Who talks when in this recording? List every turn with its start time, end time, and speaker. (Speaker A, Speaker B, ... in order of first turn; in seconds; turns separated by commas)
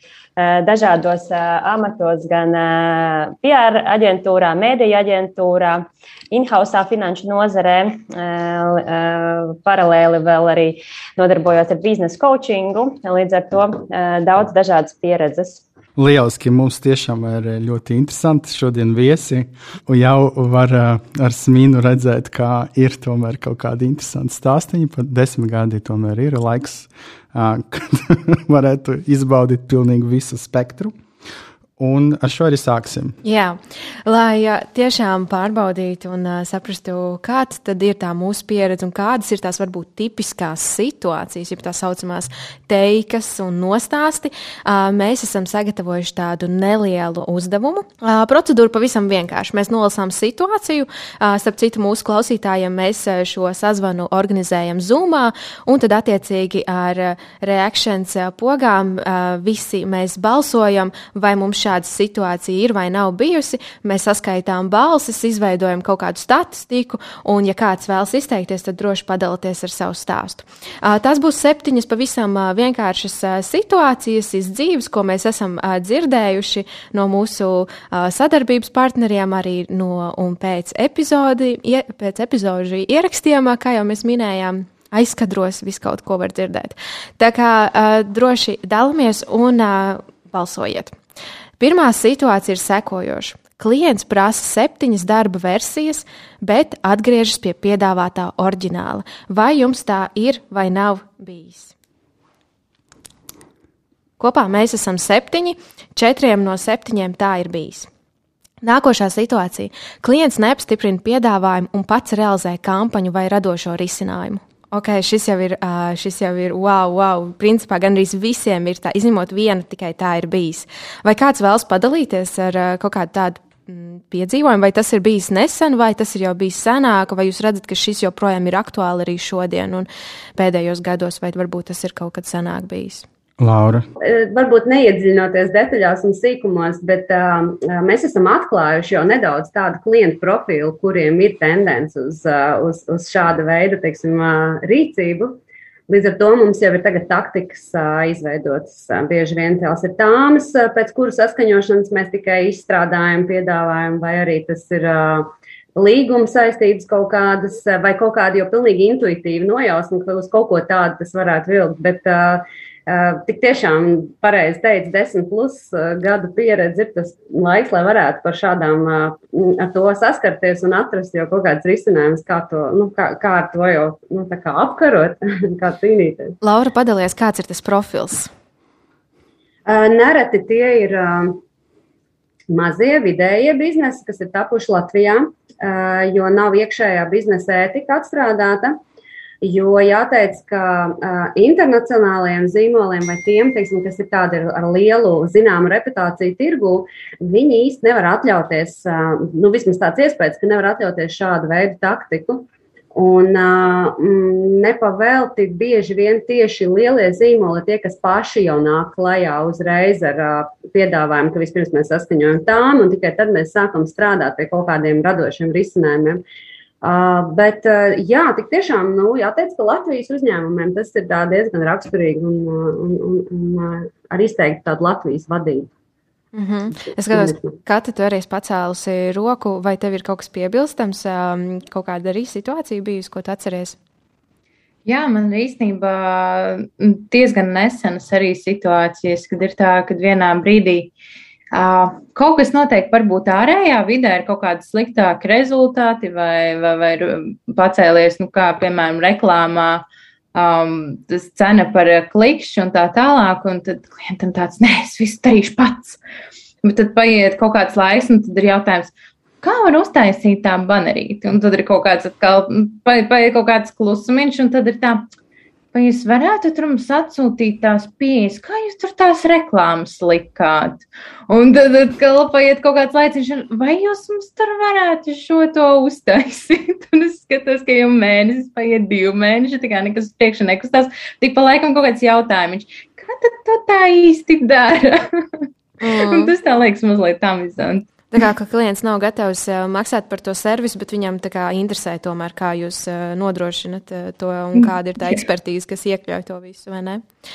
Speaker A: 0.4-15.6, Speaker B: 16.0-30.9, Speaker B: 31.8-33.2, Speaker C: 33.2-91.0, Speaker C: 91.6-101.7, Speaker C: 104.2-107.9, Speaker C: 108.6-133.1, Speaker B: 133.4-133.9, Speaker D: 134.0-176.4, Speaker C: 176.4-178.3, Speaker D: 179.7-181.4, Speaker D: 182.5-188.8, Speaker D: 189.4-216.2, Speaker D: 216.8-225.7, Speaker C: 226.3-233.8, Speaker D: 227.1-227.6, Speaker E: 234.8-240.9, Speaker E: 241.5-256.0, Speaker E: 256.6-265.1, Speaker E: 265.7-285.2, Speaker C: 285.8-286.3, Speaker E: 285.9-287.9, Speaker C: 288.1-297.0